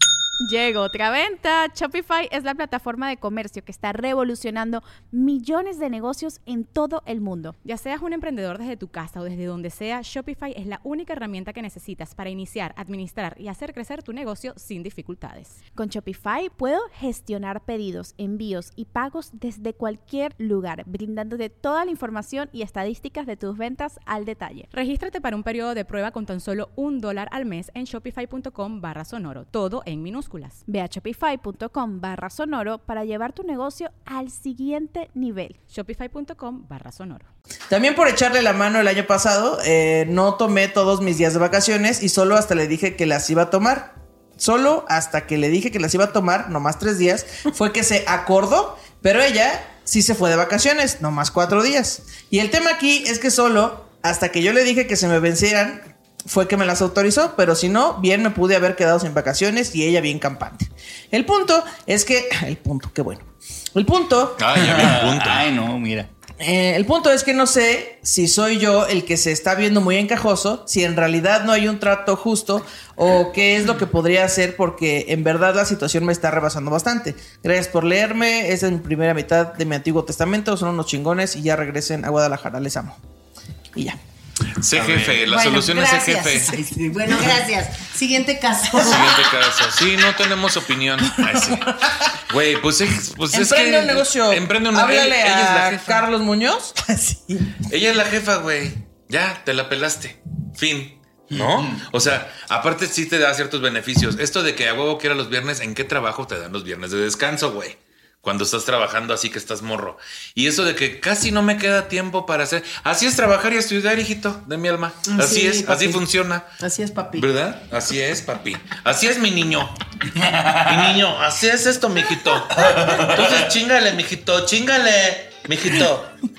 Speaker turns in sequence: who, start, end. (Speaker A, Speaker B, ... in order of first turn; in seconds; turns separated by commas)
Speaker A: 0.4-7.6, Speaker B: 7.6-15.6, Speaker A: 15.8-24.7, Speaker B: 24.7-30.6, Speaker A: 30.7-35.6, Speaker B: 35.7-37.3, Speaker C: 37.7-64.4, Speaker D: 64.4-65.5, Speaker E: 64.5-66.1, Speaker C: 66.4-83.0, Speaker D: 84.6-86.5, Speaker F: 85.2-89.3, Speaker D: 88.8-96.1, Speaker C: 91.3-91.9, Speaker C: 93.3-97.6, Speaker D: 97.6-116.5, Speaker E: 101.3-101.8, Speaker F: 115.1-116.0, Speaker F: 116.6-117.3, Speaker D: 117.2-119.7, Speaker E: 120.1-120.9, Speaker D: 120.6-126.1, Speaker E: 122.5-123.5